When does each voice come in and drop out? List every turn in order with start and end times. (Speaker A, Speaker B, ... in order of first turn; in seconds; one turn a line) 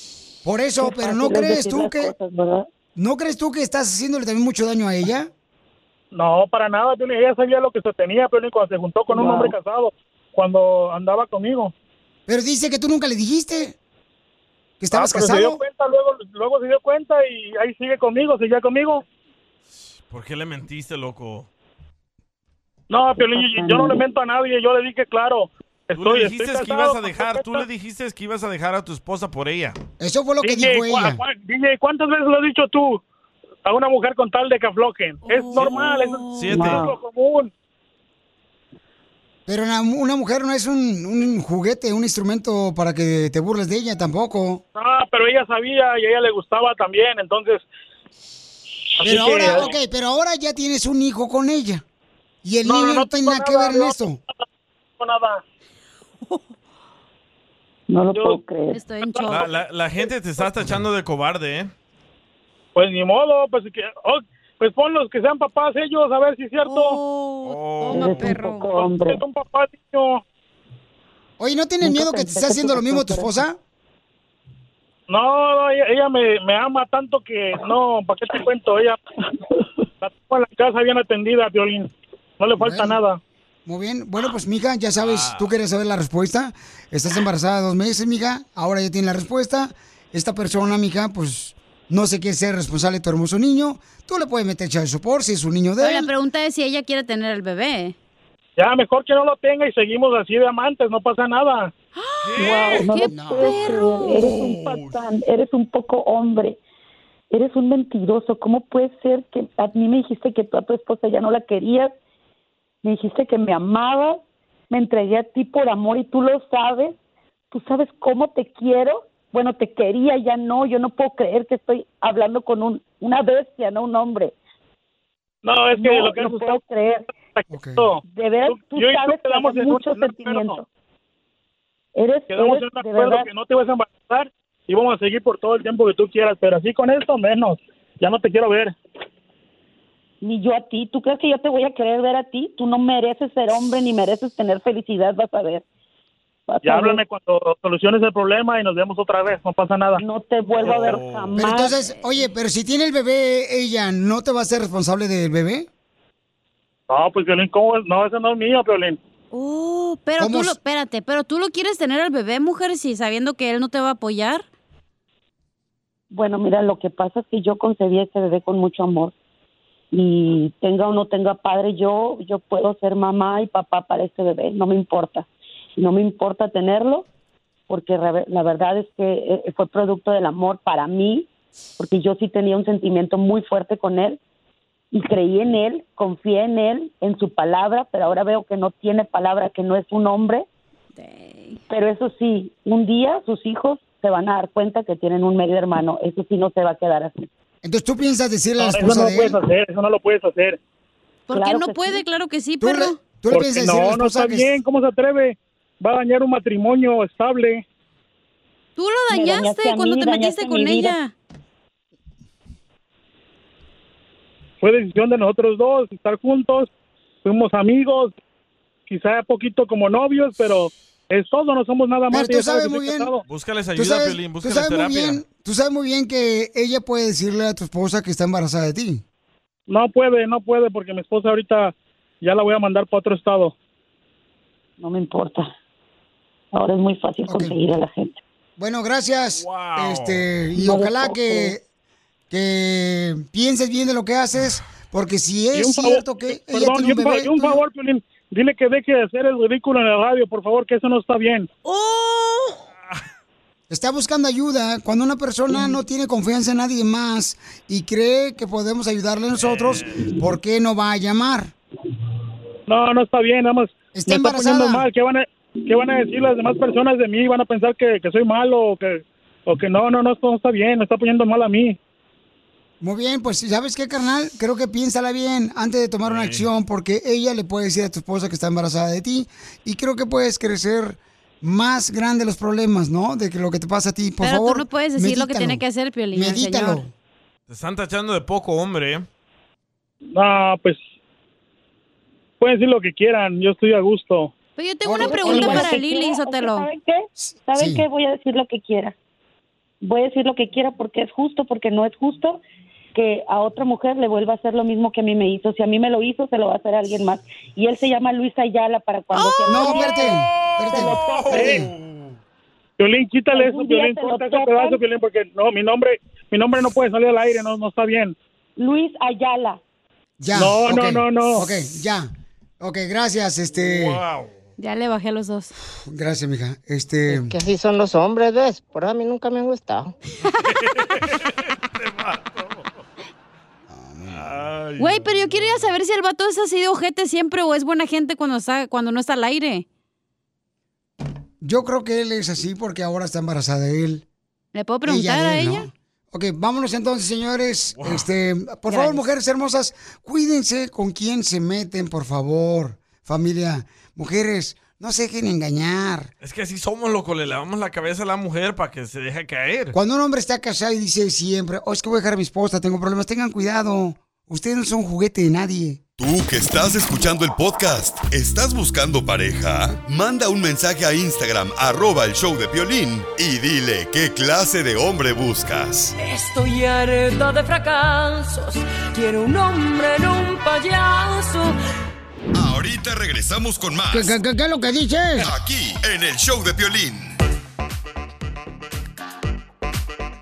Speaker A: 0.4-2.1
Speaker B: 0.8-2.7
Speaker A: 3.0-5.3
Speaker C: 6.1-11.7
Speaker B: 9.1-9.5
Speaker A: 12.3-13.7
Speaker A: 14.8-15.6
Speaker C: 14.9-19.0
Speaker D: 20.1-21.5
Speaker C: 22.9-27.6
Speaker B: 23.3-24.0
Speaker D: 25.9-29.8
Speaker A: 30.0-31.2
Speaker C: 30.4-33.0
Speaker C: 33.6-37.5
Speaker E: 35.3-36.5
Speaker D: 35.5-36.9
Speaker B: 36.5-36.9
Speaker A: 39.5-44.6
Speaker C: 44.7-47.6
Speaker C: 49.0-49.7
Speaker A: 49.0-51.8
Speaker D: 49.4-49.7
Speaker A: 52.4-54.2
Speaker C: 52.6-54.0
Speaker C: 55.0-55.4
Speaker B: 57.9-58.8
Speaker C: 58.1-58.4
Speaker E: 58.7-59.5
Speaker C: 59.0-60.5
Speaker D: 59.3-61.7
Speaker C: 62.7-67.0
Speaker E: 66.6-68.7
Speaker D: 67.4-68.3
Speaker B: 67.9-69.2
Speaker C: 68.7-70.2
Speaker A: 71.4-73.6
Speaker B: 71.8-73.4
Speaker C: 75.1-79.0
Speaker C: 80.0-83.2
Speaker A: 82.6-83.0
Speaker A: 83.7-96.1
Speaker D: 85.0-85.5
Speaker E: 95.8-98.0
Speaker C: 98.6-101.7
Speaker E: 102.0-104.3
Speaker D: 102.2-102.9
Speaker B: 102.4-106.6
Speaker A: 103.1-103.5
Speaker D: 104.2-105.0
Speaker B: 107.3-111.9
Speaker B: 112.8-116.9
Speaker B: 117.5-124.3
Speaker C: 125.4-126.6
Speaker B: 125.7-127.0
Speaker C: 127.3-130.6
Speaker A: 127.5-127.9
Speaker B: 128.0-130.6
Speaker B: 131.9-133.3
Speaker C: 132.3-138.7
Speaker B: 140.2-145.6
Speaker B: 146.5-147.0
Speaker C: 146.6-150.0
Speaker B: 150.0-151.7
Speaker C: 150.6-150.9
Speaker D: 150.6-151.4
Speaker A: 151.3-155.7
Speaker E: 151.8-152.2
Speaker C: 156.9-159.0
Speaker E: 159.3-164.4
Speaker A: 160.2-160.6
Speaker B: 166.1-169.1
Speaker B: 169.9-175.3
Speaker B: 175.8-177.1
Speaker B: 177.7-181.3
Speaker B: 181.8-184.2
Speaker B: 184.9-190.4
Speaker E: 190.9-191.6
Speaker B: 191.7-197.3
Speaker A: 197.6-199.4
Speaker C: 198.6-200.6
Speaker E: 201.3-203.0
Speaker B: 201.3-202.0
Speaker A: 202.6-204.6
Speaker C: 203.3-207.6
Speaker E: 208.8-211.1
Speaker B: 209.1-211.0
Speaker C: 214.6-216.7
Speaker C: 217.2-218.1
Speaker C: 218.9-223.2
Speaker A: 222.1-223.1
Speaker D: 223.3-225.2
Speaker A: 223.8-229.0
Speaker C: 229.7-233.5
Speaker B: 234.8-235.5
Speaker B: 236.5-238.2
Speaker A: 237.3-237.5
Speaker A: 238.6-241.6
Speaker D: 239.4-240.2
Speaker B: 240.6-241.5
Speaker A: 242.3-247.6
Speaker C: 245.5-251.5
Speaker E: 251.7-252.6
Speaker A: 253.7-261.5
Speaker D: 259.4-260.0
Speaker C: 262.7-271.8
Speaker A: 263.9-264.9
Speaker A: 272.8-285.6
Speaker D: 276.0-276.5
Speaker E: 284.2-286.8
Speaker A: 286.1-286.9
Speaker D: 287.5-289.1
Speaker C: 290.1-290.8
Speaker C: 292.4-294.3
Speaker E: 294.6-296.7
Speaker A: 294.8-295.8
Speaker B: 294.9-298.9
Speaker A: 297.2-297.8
Speaker B: 299.8-302.4
Speaker B: 302.9-310.1
Speaker E: 309.1-310.1
Speaker A: 309.5-311.7
Speaker D: 310.3-312.1
Speaker B: 310.7-311.5
Speaker C: 311.3-311.6
Speaker C: 312.8-318.1
Speaker B: 313.3-314.8
Speaker B: 318.6-319.6
Speaker A: 320.2-322.1
Speaker C: 320.3-321.4
Speaker A: 322.6-324.0
Speaker D: 323.5-324.3
Speaker E: 324.6-325.5
Speaker A: 325.9-327.4
Speaker F: 327.1-329.9
Speaker D: 330.5-332.7
Speaker A: 333.7-334.3
Speaker D: 334.1-335.6
Speaker E: 334.8-339.6
Speaker A: 341.4-344.0
Speaker E: 344.5-345.7
Speaker A: 344.9-356.1
Speaker D: 347.8-348.1
Speaker E: 348.7-349.0
Speaker D: 356.2-359.8
Speaker A: 359.7-365.8
Speaker G: 366.0-375.9
Speaker H: 376.0-381.5
Speaker G: 382.3-384.1
Speaker A: 383.9-385.3
Speaker G: 385.2-387.1